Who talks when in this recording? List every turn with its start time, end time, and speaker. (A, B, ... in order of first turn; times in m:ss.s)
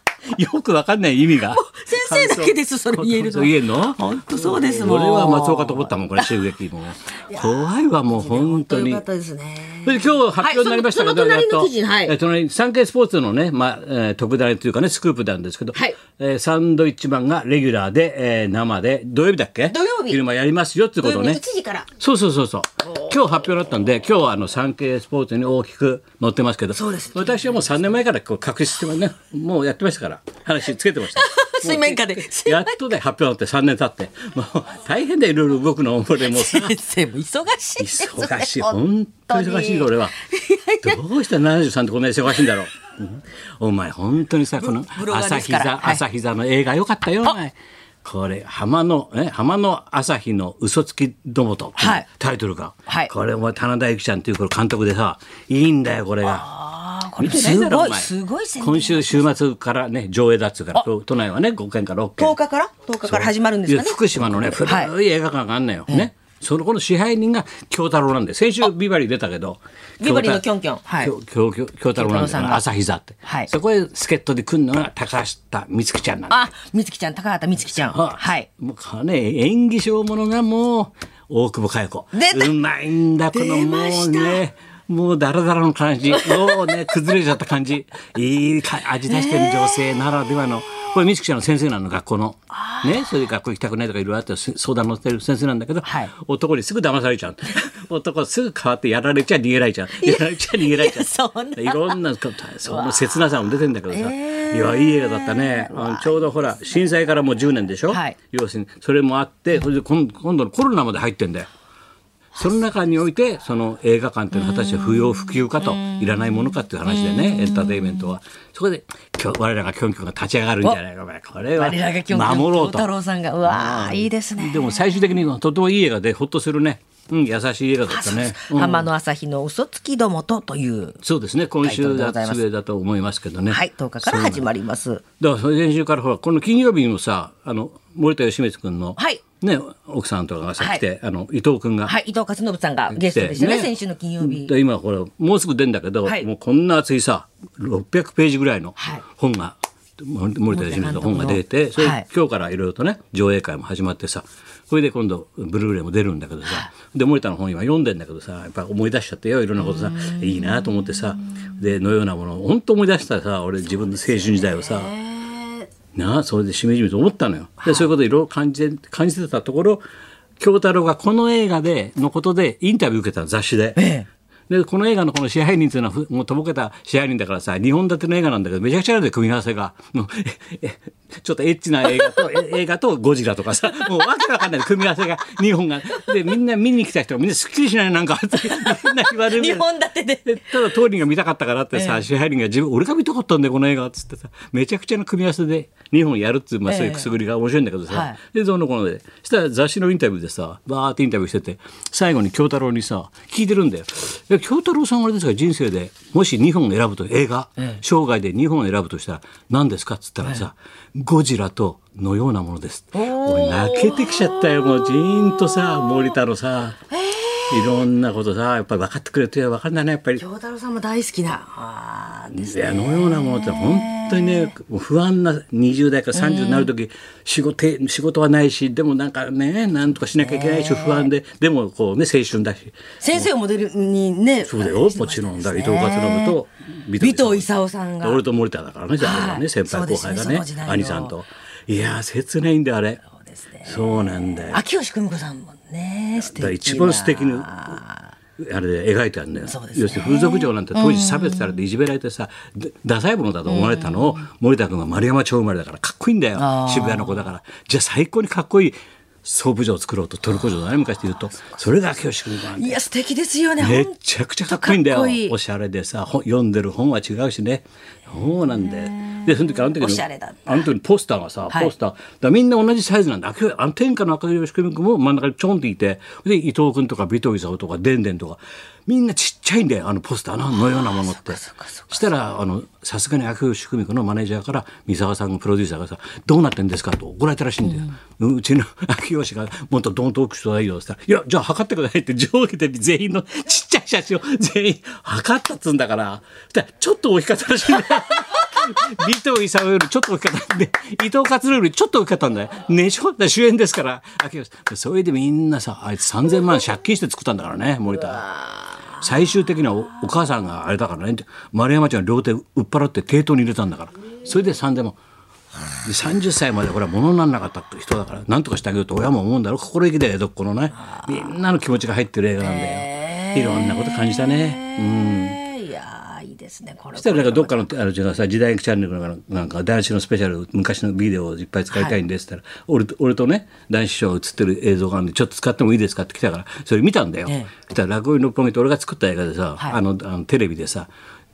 0:00.3-0:09.0 A
0:01.5-0:06.3 B
0:07.3-0:12.2 B
0:09.8-0:21.4 A
0:19.7-0:20.2 B
0:21.0-0:21.9 B
0:22.0-0:36.7 A
0:26.7-0:27.6 B
0:31.2-0:32.9 B
0:36.2-0:41.0 B
0:37.8-0:40.2 A
0:40.8-0:56.5 A
0:44.6-0:46.0 B
0:51.8-0:52.1 B
0:52.9-0:53.1 B
0:56.2-0:59.4 B
0:57.2-1:02.4 A
1:02.2-1:04.9 B
1:03.0-1:10.4 A
1:10.0-1:11.1 B
1:11.0-1:16.4 A
1:12.0-1:12.6 B
1:16.3-1:18.5 B
1:17.7-1:51.5 A
1:22.1-1:22.6 B
1:23.3-1:24.4 B
1:26.1-1:26.6 B
1:29.1-1:29.8 B
1:32.5-1:33.1 B
1:35.8-1:36.1 B
1:40.0-1:42.0 B
1:42.7-1:46.4 B
1:47.9-1:48.2 B
1:52.4-2:02.9 A
1:54.3-1:58.2 B
2:01.6-2:05.2 B
2:03.4-2:08.9 A
2:07.9-2:11.0 B
2:11.0-2:14.5 A
2:11.6-2:12.4 B
2:13.5-2:15.0 B
2:15.2-2:21.9 A
2:19.0-2:19.2 B
2:21.8-2:24.5 B
2:22.9-2:45.0 A
2:28.8-2:29.0 B
2:30.5-2:32.0 B
2:39.6-2:40.8 B
2:44.5-2:45.7 B
2:45.9-2:49.8 A
2:50.4-2:53.9 A
2:53.8-2:54.1 B
2:54.5-3:09.7 A
3:01.9-3:02.3 B
3:08.4-3:10.6 B
3:10.2-3:36.8 A
3:11.7-3:12.0 B
3:16.7-3:17.1 B
3:17.9-3:18.2 B
3:33.0-3:36.1 B
3:36.9-3:37.9 B
3:37.5-3:40.2 A
3:40.2-3:44.5 B
3:42.3-3:53.3 A
3:46.1-3:46.7 B
3:50.2-3:51.1 B
3:53.0-3:56.4 B
3:54.5-3:57.5 A
3:57.0-3:58.2 B
3:58.0-4:03.0 A
3:59.0-4:01.2 B
4:03.2-4:08.1 B
4:03.6-4:04.6 A
4:06.2-4:07.8 A
4:08.4-4:22.8 A
4:09.5-4:11.6 B
4:13.5-4:14.2 B
4:16.4-4:17.2 B
4:22.5-4:23.9 B
4:23.6-5:08.4 A
4:24.5-4:25.3 B
4:28.4-4:30.7 B
4:40.5-4:42.0 B
4:47.7-4:47.9 B
5:09.0-5:15.0 A
5:15.8-5:25.4 A
5:20.9-5:21.3 B
5:22.4-5:27.7 B
5:27.0-5:40.9 A
5:31.7-5:32.0 B